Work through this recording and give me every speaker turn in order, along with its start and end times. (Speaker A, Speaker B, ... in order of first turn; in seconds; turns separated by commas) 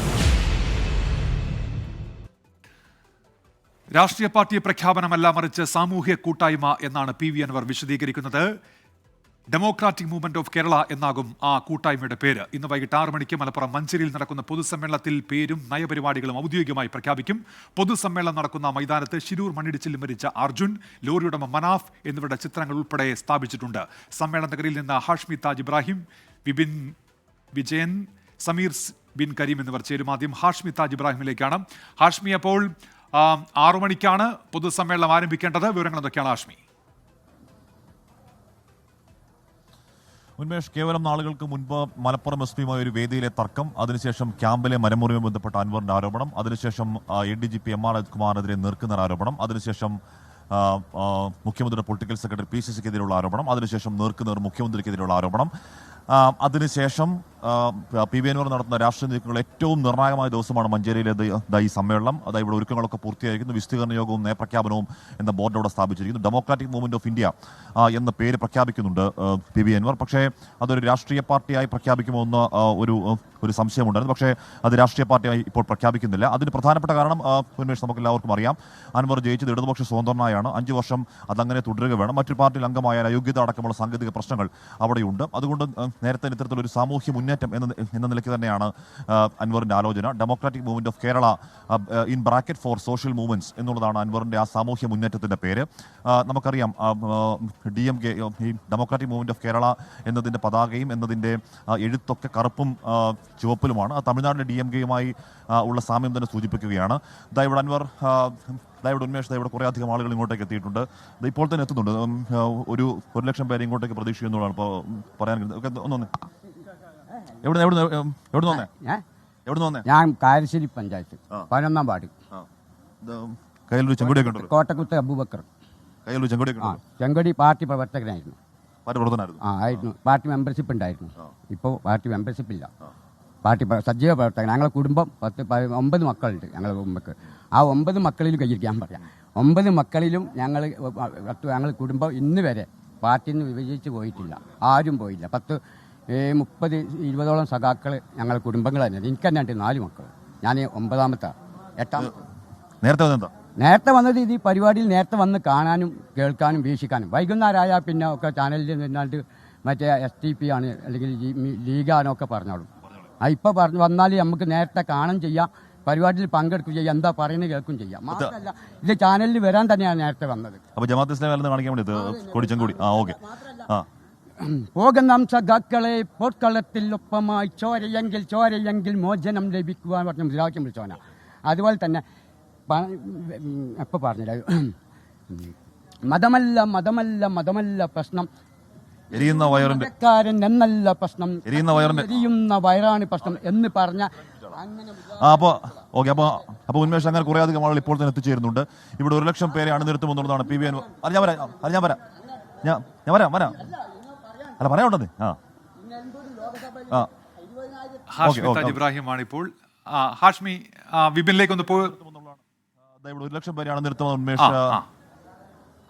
Speaker A: 3.9-8.5, Speaker A: 9.5-26.9, Speaker A: 27.5-36.6, Speaker B: 40.4-50.0, Speaker B: 50.5-55.5, Speaker B: 56.1-116.1, Speaker B: 117.4-118.7, Speaker C: 118.5-119.0, Speaker B: 119.5-119.8, Speaker C: 119.8-122.1, Speaker B: 123.0-124.5, Speaker C: 124.1-125.5, Speaker B: 126.0-126.8, Speaker C: 126.6-128.4, Speaker B: 128.8-129.4, Speaker C: 129.4-132.7, Speaker C: 133.4-145.6, Speaker C: 146.1-152.1, Speaker B: 152.8-153.3, Speaker C: 153.6-162.7, Speaker C: 163.2-170.6, Speaker B: 170.7-173.9, Speaker C: 174.4-182.0, Speaker C: 182.7-184.7, Speaker C: 186.1-188.3, Speaker B: 189.1-189.9, Speaker C: 189.1-195.0, Speaker B: 191.5-192.1, Speaker B: 195.1-202.0, Speaker B: 202.6-203.7, Speaker B: 204.6-205.4, Speaker C: 206.1-206.7, Speaker A: 208.1-211.9, Speaker B: 208.2-208.8, Speaker B: 211.8-212.4, Speaker B: 213.0-214.8, Speaker A: 214.4-214.8